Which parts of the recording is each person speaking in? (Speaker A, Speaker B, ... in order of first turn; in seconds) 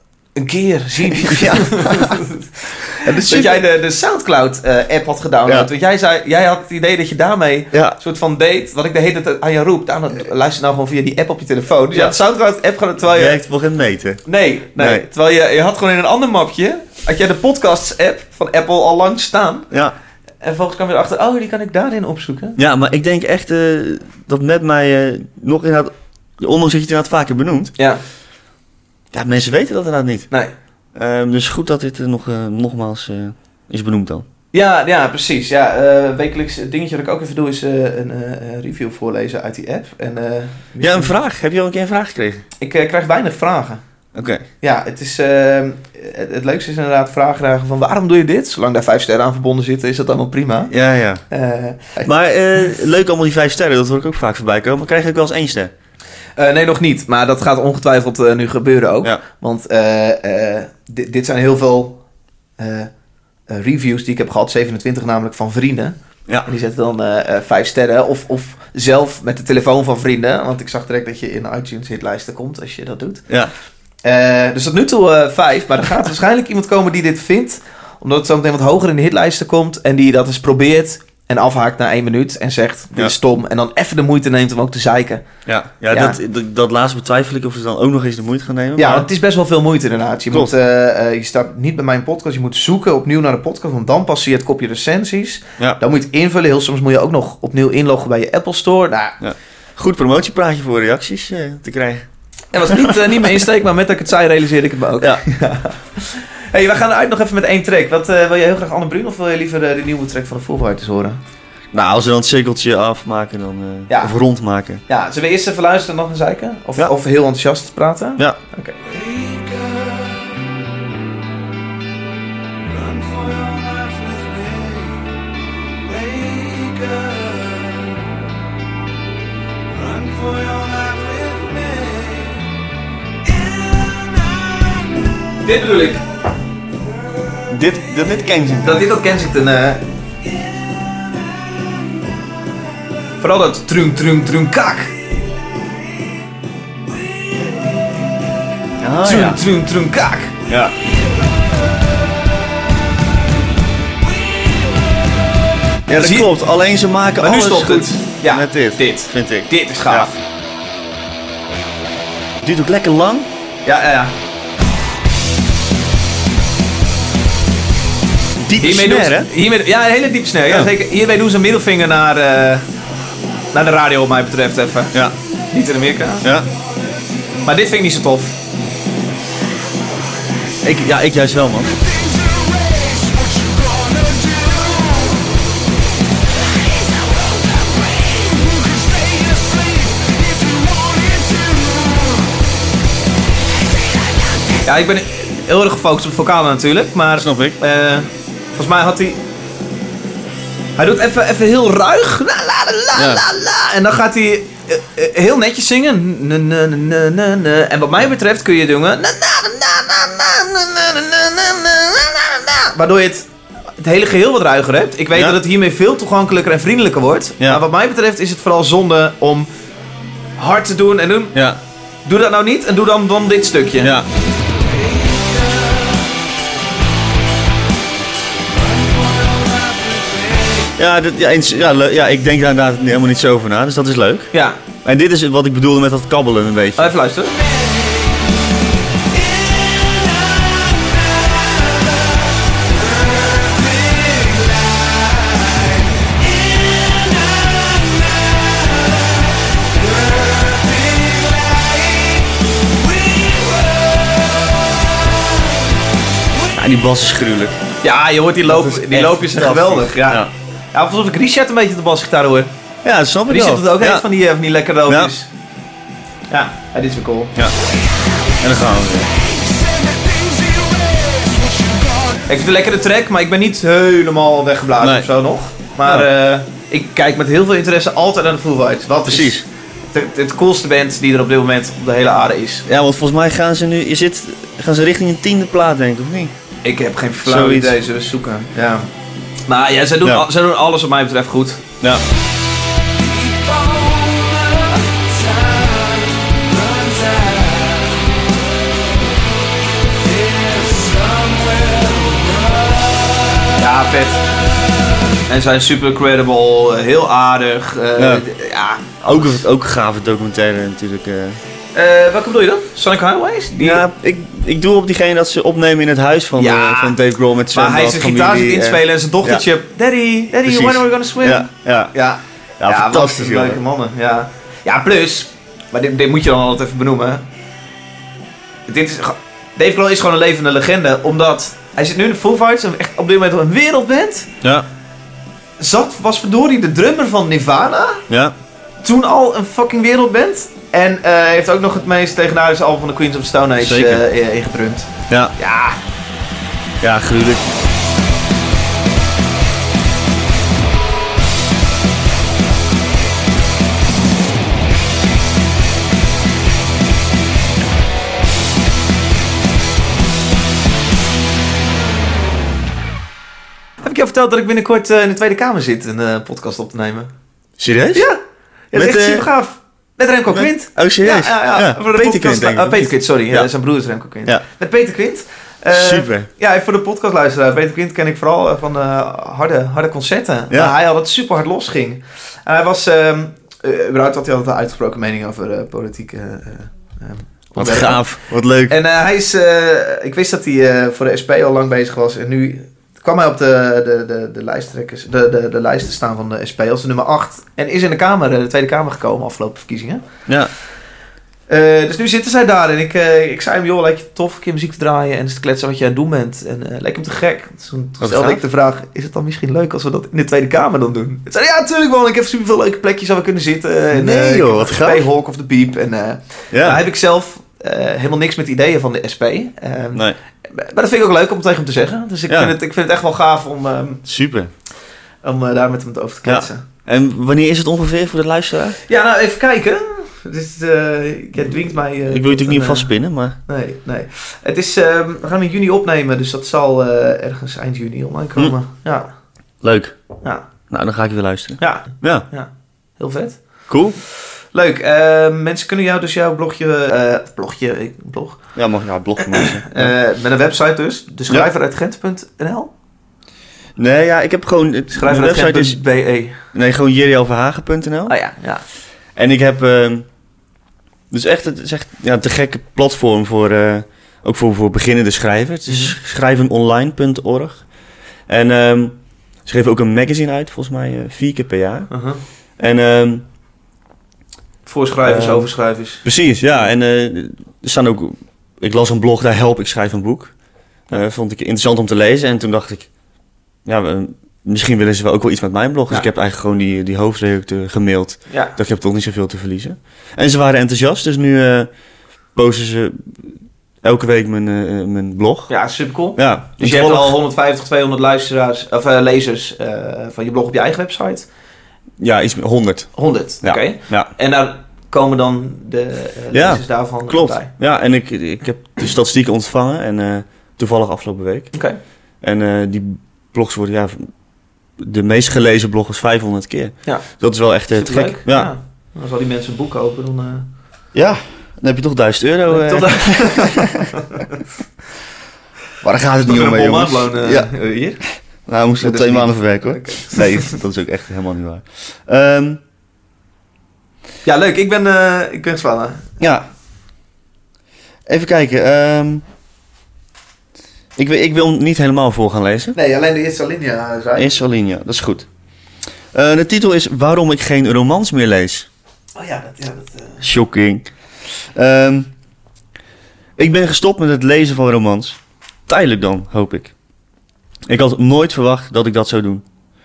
Speaker A: 0.3-13.4, 14.2-19.7, 20.4-22.6, 27.8-28.0, 34.5-41.1, 42.6-43.8, 44.6-50.7, 51.3-52.1, 56.4-62.0, 62.6-62.9, 63.5-73.2, 74.0-85.2, 85.9-86.2, 88.8-99.2, 102.5-111.2, 113.9-114.1, 114.9-118.8, 135.4-136.0, 138.6-139.8, 143.2-144.9, 149.0-150.5, 155.9-156.3, 157.2-160.2, 163.6-164.2, 168.6-172.7, 173.5-175.0, 175.5-176.3, 177.4-178.3, 194.6-199.2, 200.8-213.2, 213.8-219.5, 220.4-221.4, 222.0-223.9, 234.3-234.6, 236.8-237.4, 257.8-262.5, 263.3-265.3, 266.3-267.3, 272.3-282.6, 286.6-288.9, 289.5-291.6, 303.5-304.2, 305.3-309.4, 311.7-313.9, 316.3-317.0, 317.5-327.2, 328.7-334.3, 335.6-338.0, 338.8-345.8, 363.8-367.1, 367.9-368.2, 368.7-388.0, 388.7-400.0, 401.5-424.0, 425.2-426.6, 428.8-432.9, 433.5-439.1, 441.6-443.4, 444.5-448.4, 449.2-452.7, 454.9-456.4, 458.1-458.6, 465.7-465.9, 471.9-472.2, 474.6-476.0, 488.3-488.6, 495.5-501.3, 502.9-507.5, 511.5-511.8, 517.7-520.5, 522.5-524.3, 526.2-528.0, 528.8-530.6, 534.2-536.2, 542.7-544.4, 549.1-550.2
Speaker B: 1.1-2.2, 3.0-3.6, 7.7-8.0, 13.1-14.2, 14.8-15.1, 22.6-27.7, 29.1-30.3, 30.9-34.2, 40.8-42.4, 44.1-44.4, 50.7-51.2, 52.0-55.7, 85.5-89.1, 99.2-102.1, 102.7-103.4, 111.7-114.8, 137.5-138.9, 148.8-149.4, 155.9-160.1, 162.4-163.3, 168.4-169.3, 176.2-176.5, 180.6-181.8, 197.1-197.6, 202.9-203.2, 221.3-221.6, 223.8-224.1, 230.8-234.3, 234.8-236.9, 256.5-257.6, 258.4-260.3, 262.8-264.0, 264.9-265.1, 268.4-269.1, 274.8-275.1, 279.1-279.4, 282.7-286.3, 287.2-287.8, 308.0-308.2, 309.0-311.4, 313.6-319.4, 320.4-321.9, 322.6-323.6, 338.1-338.3, 343.6-344.0, 345.1-345.3, 346.8-347.4, 367.6-368.1, 368.7-369.3, 370.3-373.5, 375.7-376.3, 387.6-388.7, 408.0-408.4, 413.9-415.1, 416.5-416.8, 424.0-424.5, 426.2-428.8, 432.0-433.4, 439.6-440.0, 440.7-442.2, 443.7-444.0, 448.6-449.9, 453.8-455.8, 456.5-458.1, 459.1-460.1, 461.1-467.6, 468.3-471.9, 472.6-473.2, 475.0-475.5, 476.0-480.3, 480.9-482.9, 483.6-491.7, 492.3-492.9, 493.8-495.5, 496.1-497.2, 502.0-504.1, 506.3-511.5, 512.2-514.0, 514.8-518.5, 520.9-524.0, 525.8-527.5, 528.5-532.6, 536.2-536.5, 538.0-539.2, 541.0-542.8, 544.1-545.3, 546.1-548.7, 550.2-552.1, 553.4-556.7, 557.7-559.4
Speaker C: 119.0-120.2, 122.7-124.9, 125.9-127.7, 129.7-132.4, 133.8-134.1, 182.0-185.1, 188.5-191.8, 225.0-225.8, 228.6-230.7, 239.6-240.2, 243.9-244.5, 250.2-251.7, 270.2-271.7, 293.2-297.8, 300.1-302.6